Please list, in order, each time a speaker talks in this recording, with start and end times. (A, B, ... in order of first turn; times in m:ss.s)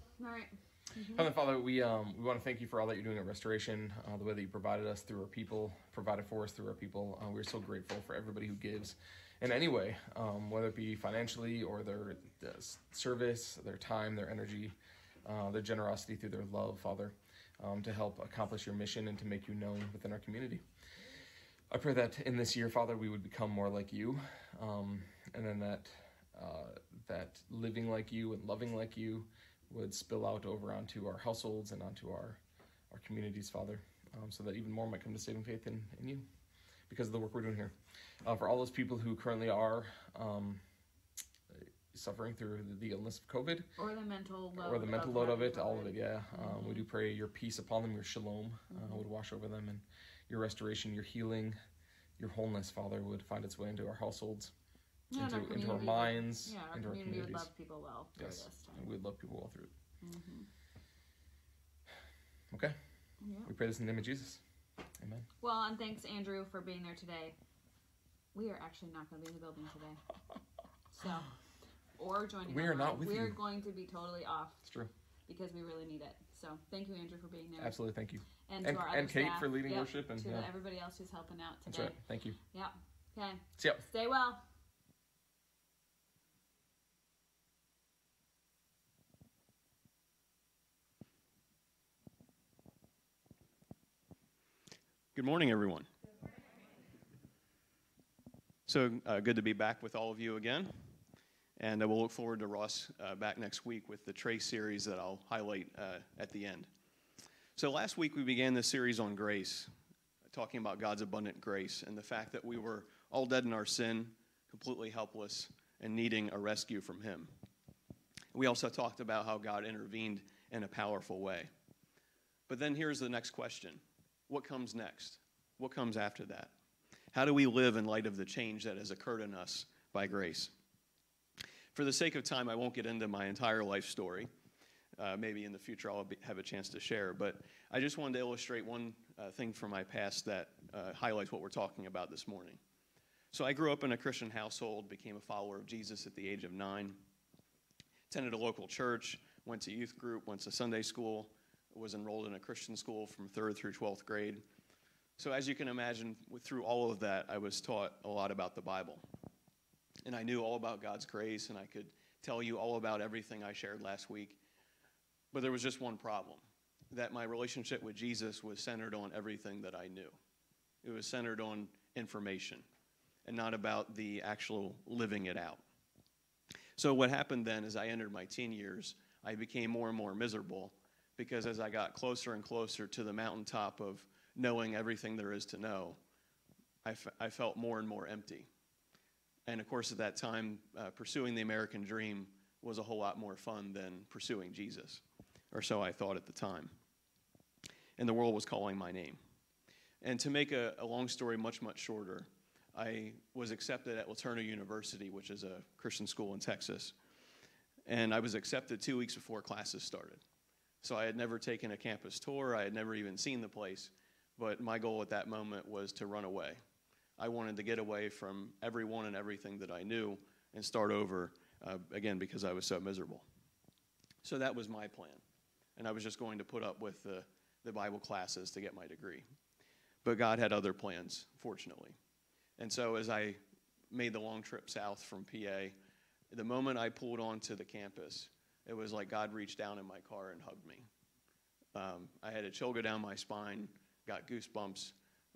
0:00.2-0:01.3 A
0:01.0-0:20.6 B
0:21.7-0:36.3 B
0:36.9-0:40.6 B
0:41.5-0:43.7 B
0:43.8-0:46.9 A
0:44.6-0:51.6 B
0:48.7-0:49.0 A
0:52.2-0:54.5 B
0:55.1-0:58.8 A
0:55.2-0:57.5 B
0:58.2-0:59.7 B
1:00.0-1:00.5 A
1:02.5-1:02.8 B
1:03.2-1:03.5 A
1:03.4-1:04.4 B
1:05.0-1:05.3 B
1:05.4-1:07.4 A
1:08.3-1:10.0 A
1:10.9-1:11.3 A
1:12.0-1:14.6 A
1:12.5-1:13.4 B
1:14.6-1:14.9 B
1:15.3-1:17.8 A
1:17.6-1:20.5 B
1:18.5-1:22.0 A
1:21.7-1:22.4 B
1:22.5-1:24.4 A
1:23.6-1:23.8 B
1:35.2-1:35.9 C
1:38.7-1:40.8 C
1:41.6-1:46.7 C
1:47.6-1:49.7 C
1:50.3-1:57.3 C
1:58.3-2:01.5 C
2:02.5-2:06.5 C
2:07.1-2:10.5 C
2:11.7-2:14.3 C
2:15.0-2:22.6 C
2:23.3-2:27.0 C
2:28.1-2:34.4 C
2:35.2-2:39.0 C
2:40.0-2:44.4 C
2:45.3-2:50.2 C
2:50.8-2:52.6 C
2:53.3-2:55.6 C
2:56.8-3:06.0 C
3:06.8-3:08.5 C
3:09.5-3:16.7 C
3:18.0-3:19.2 C
3:20.0-3:27.0 C
3:27.9-3:30.2 C
3:30.8-3:36.6 C
3:37.2-3:43.2 C
3:44.2-3:45.2 C
3:45.8-3:49.2 C
3:50.0-3:52.0 C
3:52.6-3:53.4 C
3:53.9-3:55.8 C
3:56.3-4:00.9 C
4:01.7-4:05.0 C